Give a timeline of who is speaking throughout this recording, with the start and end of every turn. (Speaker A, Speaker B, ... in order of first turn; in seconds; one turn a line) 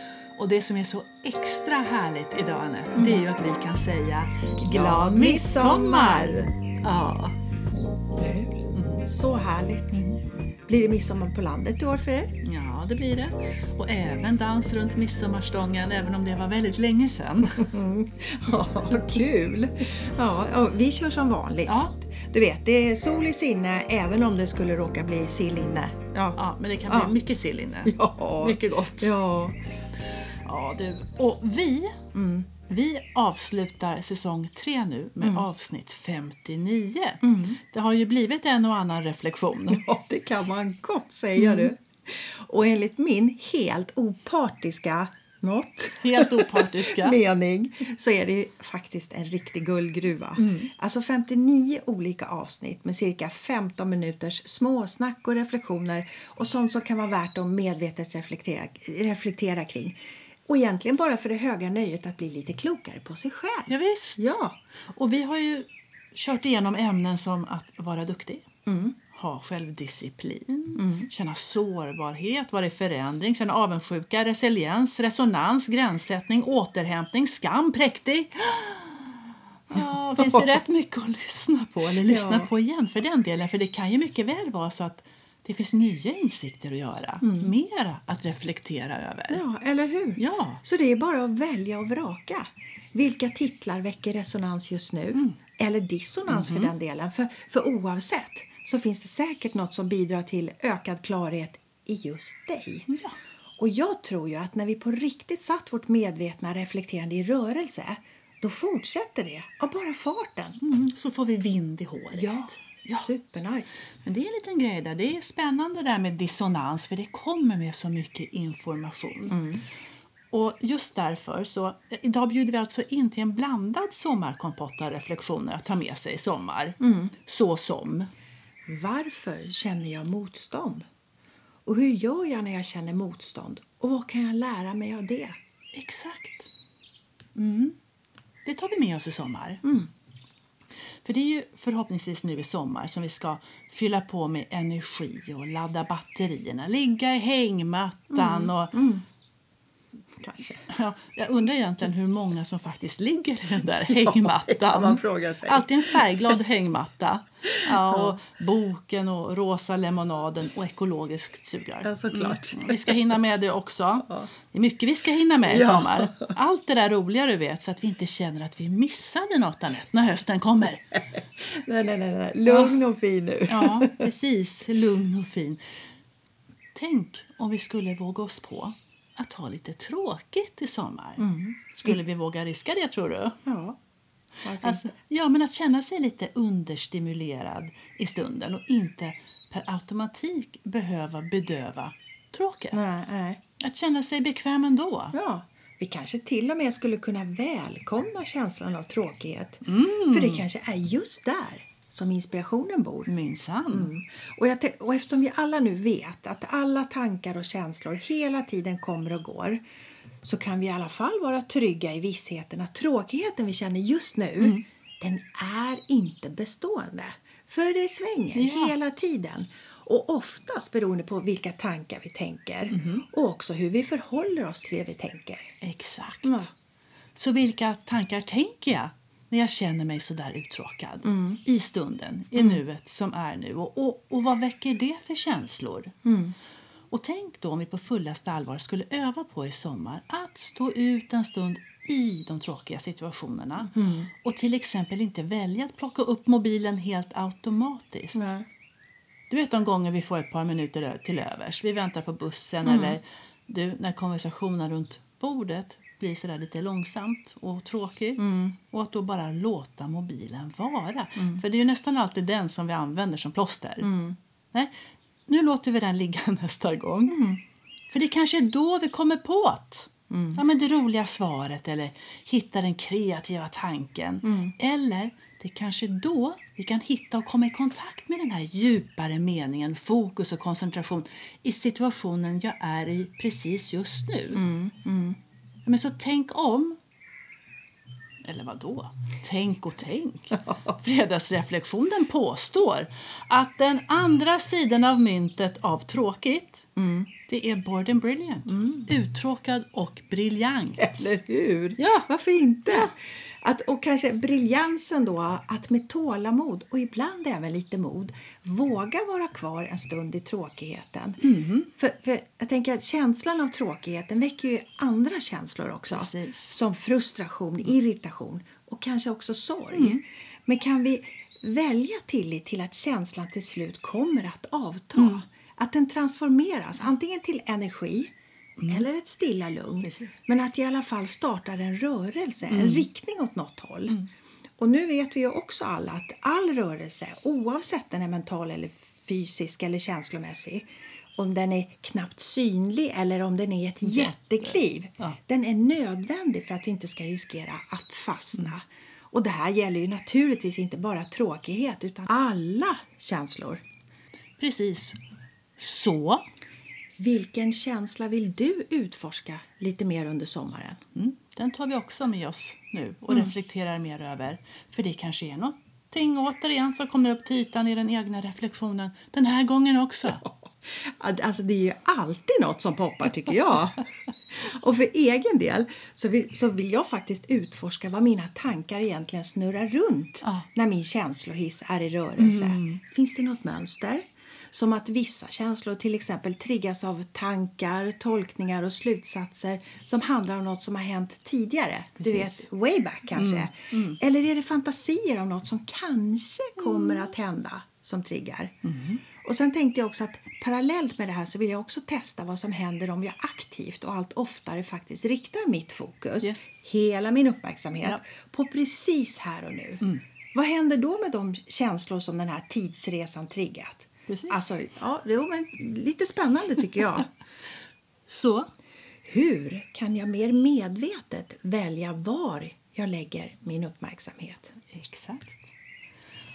Speaker A: 0.3-7.4
Speaker B: 2.9-3.2
Speaker B: 4.6-6.4
Speaker B: 8.1-10.1
Speaker A: 8.7-9.0
Speaker B: 10.7-12.3
Speaker A: 12.4-17.7
Speaker B: 17.6-27.1
Speaker A: 21.6-21.9
Speaker A: 26.4-29.1
Speaker B: 27.8-29.6
Speaker A: 30.4-32.1
Speaker B: 32.1-32.5
Speaker A: 32.6-39.8
Speaker B: 35.2-35.5
Speaker B: 37.2-37.6
Speaker B: 39.7-64.6
Speaker A: 41.4-41.7
Speaker A: 46.0-47.2
Speaker A: 50.4-50.7
Speaker A: 63.7-64.3
Speaker A: 64.9-68.4
Speaker B: 68.7-69.0
Speaker A: 69.1-89.4
Speaker B: 70.8-71.1
Speaker B: 80.2-80.5
Speaker B: 82.0-82.5
Speaker B: 87.2-87.5
Speaker B: 89.3-102.9
Speaker A: 90.2-90.6
Speaker A: 96.3-96.7
Speaker A: 102.9-103.2
Speaker B: 103.6-110.6
Speaker A: 110.6-113.1
Speaker B: 112.1-113.8
Speaker A: 114.0-119.4
Speaker B: 119.3-119.6
Speaker A: 120.3-128.1
Speaker B: 126.8-127.1
Speaker B: 128.7-130.8
Speaker B: 131.7-135.3
Speaker A: 135.7-136.5
Speaker A: 137.3-137.8
Speaker A: 138.4-139.6
Speaker B: 139.6-139.9
Speaker A: 141.0-148.8
Speaker B: 148.1-149.0
Speaker B: 150.2-150.6
Speaker A: 150.4-171.0
Speaker B: 153.8-156.4
Speaker B: 157.4-158.2
Speaker B: 161.8-163.2
Speaker B: 165.5-166.3
Speaker B: 171.4-174.1
Speaker A: 172.5-172.8
Speaker A: 173.5-175.6
Speaker A: 176.7-181.2
Speaker B: 181.2-182.0
Speaker A: 181.8-183.4
Speaker B: 183.4-183.8
Speaker B: 184.4-184.9
Speaker A: 184.6-192.8
Speaker B: 192.7-193.4
Speaker A: 193.6-195.1
Speaker B: 195.1-203.1
Speaker A: 199.6-200.4
Speaker A: 203.1-203.9
Speaker B: 203.7-209.6
Speaker B: 210.2-225.4
Speaker A: 218.3-218.7
Speaker A: 222.7-223.0
Speaker A: 225.6-226.5
Speaker B: 226.2-226.5
Speaker A: 227.1-235.9
Speaker B: 231.0-231.4
Speaker B: 236.0-236.3
Speaker A: 236.9-248.2
Speaker B: 243.7-244.1
Speaker B: 248.1-248.4
Speaker A: 249.3-263.9
Speaker B: 252.6-253.0
Speaker B: 258.2-258.5
Speaker B: 263.8-264.2
Speaker A: 265.3-267.2
Speaker B: 267.1-267.4
Speaker A: 267.9-284.4
Speaker B: 270.1-270.4
Speaker B: 274.2-274.5
Speaker B: 284.3-285.2
Speaker A: 285.6-286.8
Speaker A: 288.2-296.7
Speaker B: 296.8-297.1
Speaker A: 297.3-301.1
Speaker B: 298.5-298.9
Speaker B: 300.8-311.2
Speaker A: 301.8-302.1
Speaker A: 302.7-302.9
Speaker A: 311.2-311.7
Speaker B: 311.8-328.1
Speaker A: 315.9-316.5
Speaker A: 319.7-320.0
Speaker A: 325.0-325.2
Speaker A: 328.6-328.8
Speaker B: 328.7-334.0
Speaker A: 329.8-330.1
Speaker A: 332.5-332.9
Speaker B: 334.6-353.6
Speaker A: 343.8-345.2
Speaker A: 354.4-355.0
Speaker A: 355.6-356.2
Speaker B: 357.0-360.8
Speaker A: 360.9-370.2
Speaker B: 370.2-398.5
Speaker A: 382.2-382.8
Speaker A: 392.0-392.4
Speaker A: 393.1-394.0
Speaker A: 396.6-397.1
Speaker A: 398.6-399.0
Speaker B: 399.2-417.1
Speaker A: 414.1-414.5
Speaker A: 418.1-418.5
Speaker B: 419.1-424.5
Speaker A: 424.6-425.5